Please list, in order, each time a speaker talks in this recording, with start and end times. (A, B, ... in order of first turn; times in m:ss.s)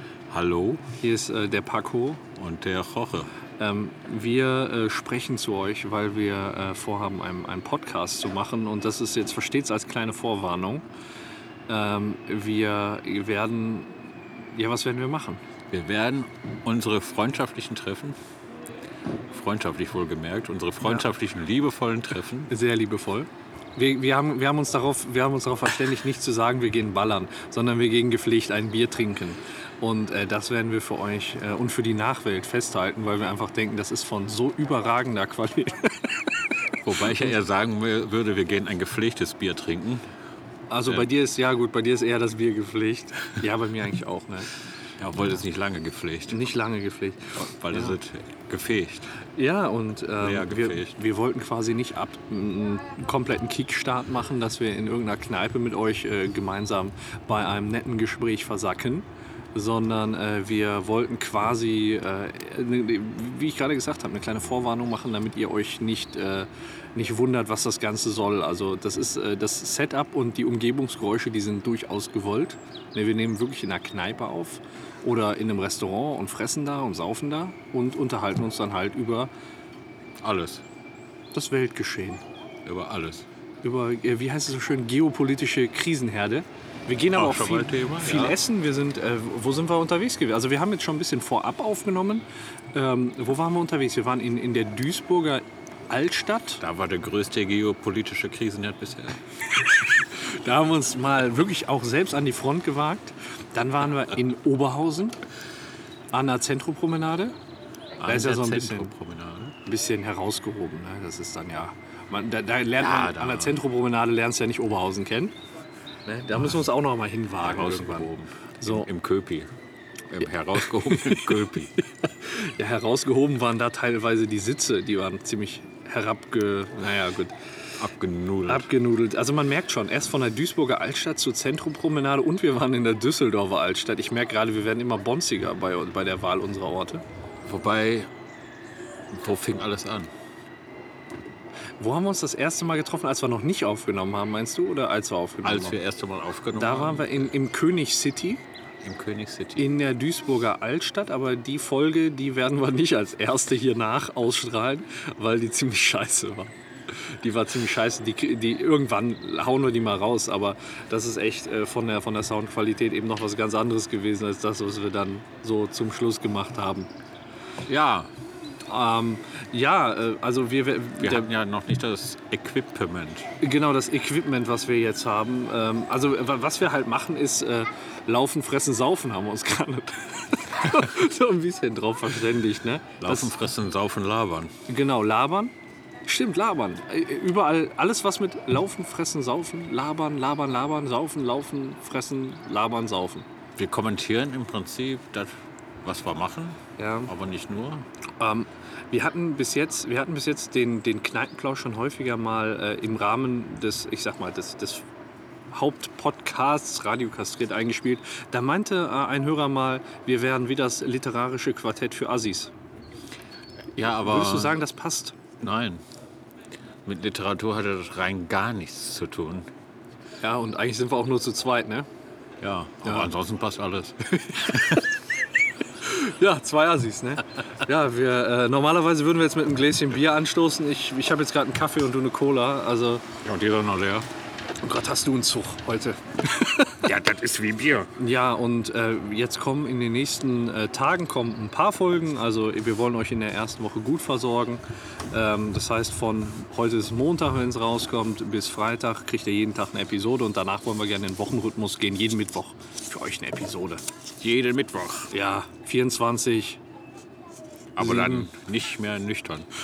0:00.3-0:00.9 A
0:01.0-0:02.2 B
0:02.4-0:03.3 A
0:03.6-0:10.8 B
0:11.7-0:15.4 B
0:15.7-0:18.2 A
0:19.3-0:22.5 A
0:22.5-0:36.4 B
0:36.8-0:40.0 A
0:40.7-0:44.5 B
0:45.0-0:46.5 A
0:46.3-0:48.0 B
0:47.5-0:49.1 A
0:49.4-1:19.3 B
0:50.2-0:51.0 A
1:20.2-1:20.6 A
1:21.3-1:22.2 B
1:22.6-1:23.3 A
1:23.6-1:36.6 B
1:27.1-1:28.4 A
1:36.6-1:39.2 A
1:39.6-1:45.2 B
1:46.1-1:47.3 B
1:48.0-1:49.6 A
1:48.0-1:48.9 B
1:49.6-1:55.3 B
1:52.8-1:53.6 A
1:56.1-1:58.9 B
1:57.4-1:59.5 A
2:00.1-2:01.7 A
2:00.8-2:01.4 B
2:02.0-2:07.3 B
2:07.8-2:08.7 A
2:08.5-2:17.0 B
2:17.4-2:18.1 A
2:19.1-2:20.1 A
2:21.8-2:25.8 B
2:25.4-2:27.3 A
2:26.6-2:28.4 B
2:28.8-2:29.7 A
2:29.6-2:46.9 B
2:47.7-2:48.1 A
2:48.7-2:51.3 B
2:51.0-2:53.3 A
2:53.4-3:03.4 B
3:03.0-3:04.5 A
3:04.7-3:05.5 B
3:06.1-3:13.3 B
3:13.6-3:15.3 A
3:15.8-3:17.8 A
3:16.8-3:17.1 B
3:18.2-3:24.8 B
3:25.5-3:32.5 B
3:33.8-3:34.6 A
3:34.0-3:35.2 B
3:35.4-3:35.8 A
3:36.8-3:39.5 A
3:40.2-3:41.9 B
3:42.4-3:44.8 A
3:42.8-3:43.1 B
3:44.2-3:44.8 B
3:45.8-3:53.1 B
3:53.2-3:54.1 A
3:54.6-3:56.8 B
3:56.8-3:57.9 A
3:58.0-4:13.8 B
4:14.2-4:15.1 A
4:15.1-4:16.6 B
4:17.8-4:19.5 A
4:17.8-4:18.3 B